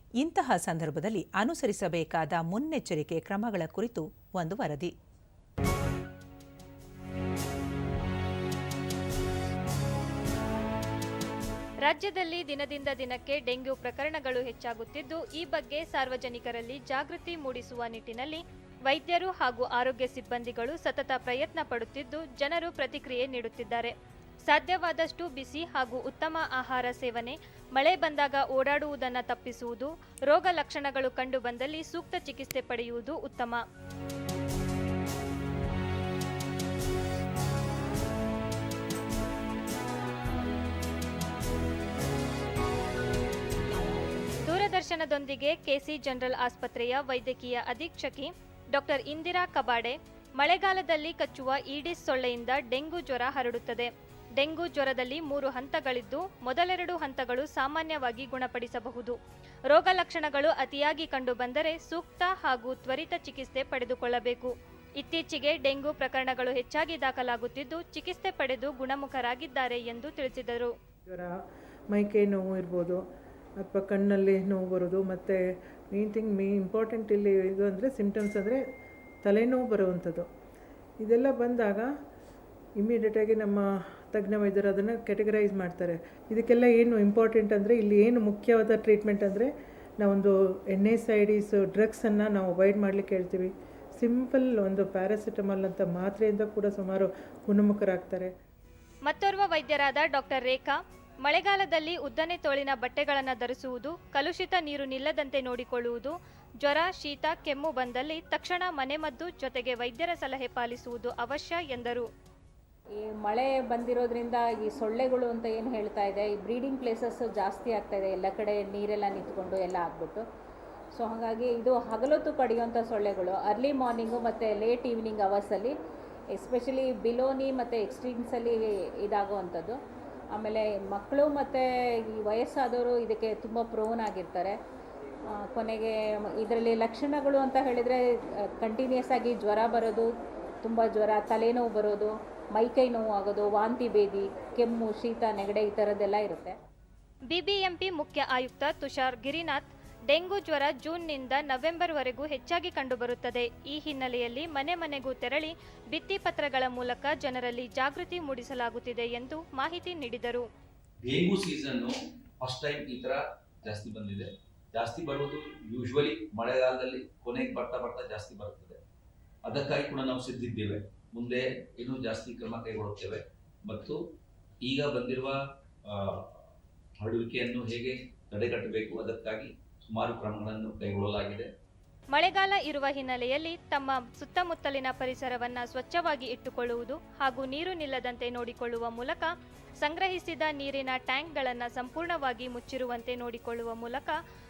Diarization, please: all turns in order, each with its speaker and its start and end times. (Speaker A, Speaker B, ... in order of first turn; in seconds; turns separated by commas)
Speaker A: 0.2-4.9, Speaker B: 11.8-23.9, Speaker B: 24.5-33.6, Speaker B: 44.5-59.2, Speaker B: 59.7-70.7, Speaker C: 71.1-71.4, Speaker C: 71.9-73.0, Speaker C: 73.6-75.4, Speaker C: 75.9-78.6, Speaker C: 79.2-80.3, Speaker C: 81.0-81.9, Speaker C: 82.8-89.5, Speaker C: 90.0-98.3, Speaker B: 99.1-112.1, Speaker D: 112.9-120.3, Speaker D: 120.9-125.8, Speaker D: 126.3-129.8, Speaker D: 130.3-134.6, Speaker D: 135.3-140.1, Speaker D: 140.6-146.6, Speaker B: 147.3-160.4, Speaker E: 161.0-168.8, Speaker E: 169.4-174.0, Speaker E: 174.6-176.2, Speaker E: 177.0-181.5, Speaker B: 182.1-189.3, Speaker B: 189.8-194.2